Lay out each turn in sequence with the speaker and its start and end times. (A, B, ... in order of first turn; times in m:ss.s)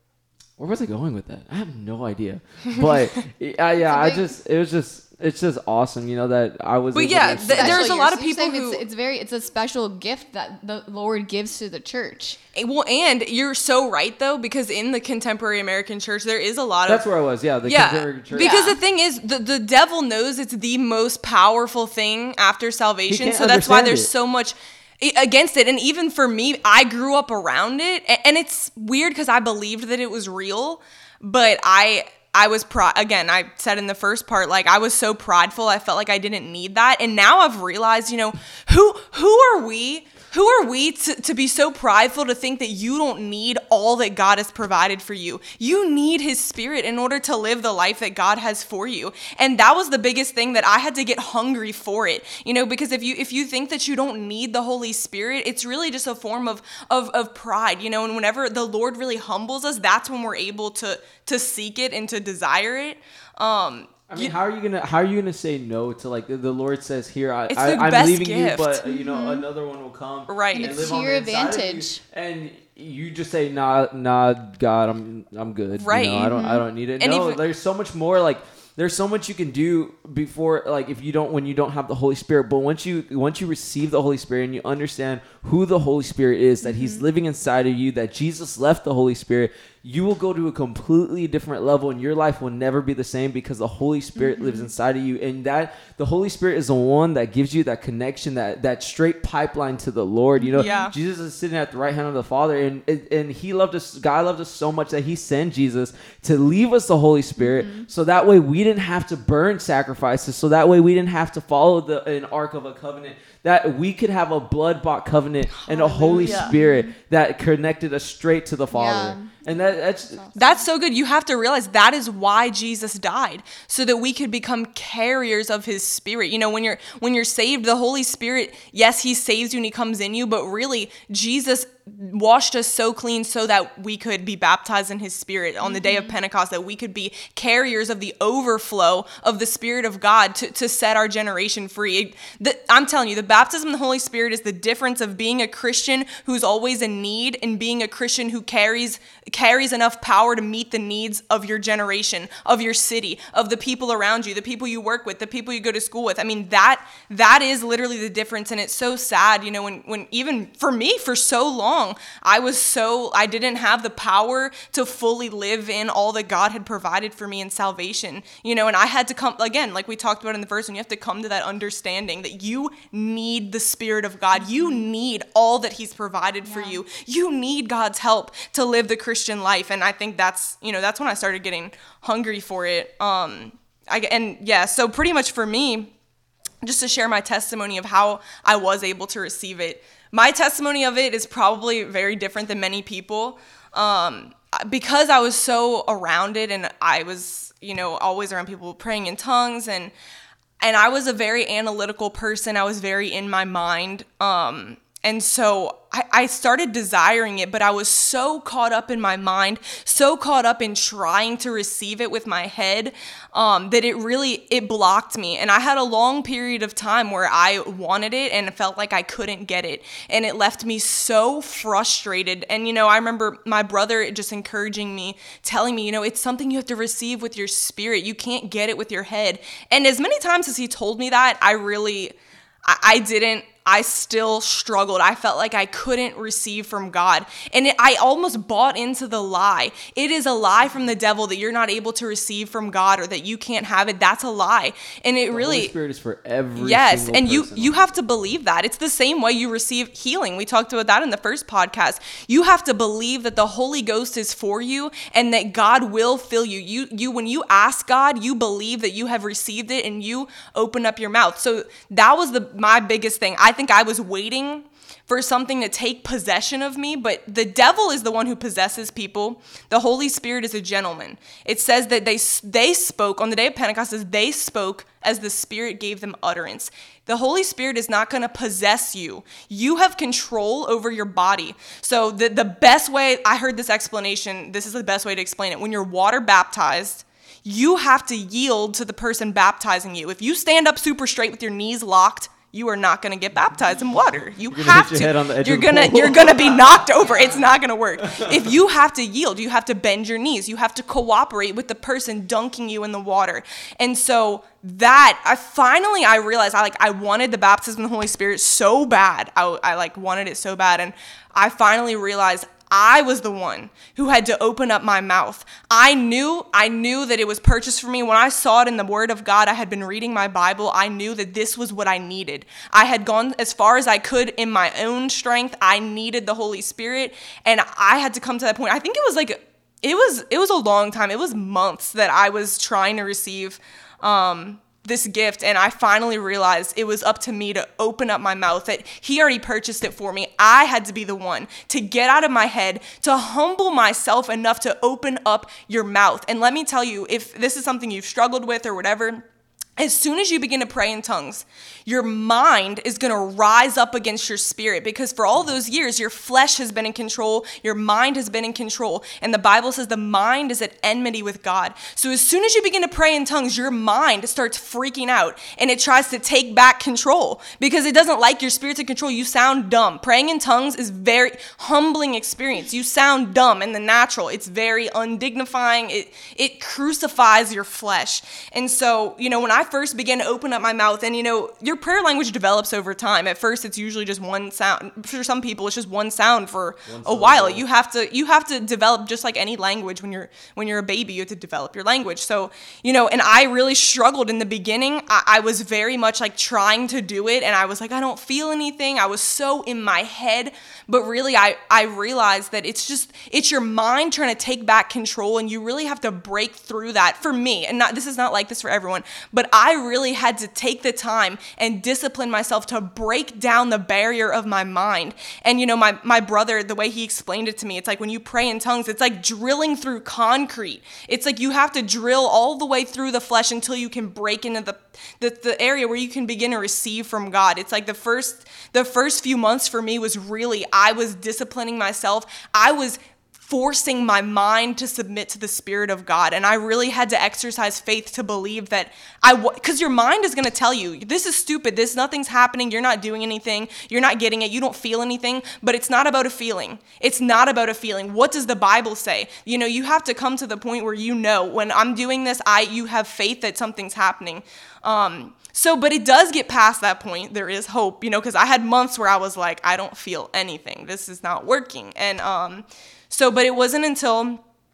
0:00.6-0:08.0 A
0:03.9-0:04.2 B
0:06.9-0:08.8 C
0:07.4-0:12.4 B
0:12.5-0:17.0 C
0:16.8-0:18.7 A
0:17.6-1:04.3 C
0:18.4-0:18.8 B
0:23.1-0:24.1 A
1:04.1-2:00.3 A
1:07.5-1:08.8 C
1:08.8-1:09.4 B
1:10.3-1:10.8 C
1:10.5-1:12.0 B
1:15.8-1:16.4 C
1:16.1-1:16.6 B
1:17.0-1:17.4 C
1:26.6-1:27.0 B
1:34.2-1:34.7 B
1:40.4-1:40.9 B
1:40.6-1:40.9 C
1:47.4-1:47.9 B
1:55.6-1:56.5 C
1:56.2-1:56.9 B
1:58.7-1:59.3 B
2:00.2-2:00.6 B
2:00.3-3:05.9 C
2:15.6-2:16.2 B
2:54.4-2:54.8 B
2:56.4-2:56.8 B
3:06.6-3:19.9 C
3:20.6-4:05.7 C
4:05.3-4:07.9 A
4:06.6-5:49.2 C
4:54.5-4:57.5 A
4:58.0-4:58.5 A
5:49.8-7:44.4 C
6:26.9-6:27.6 A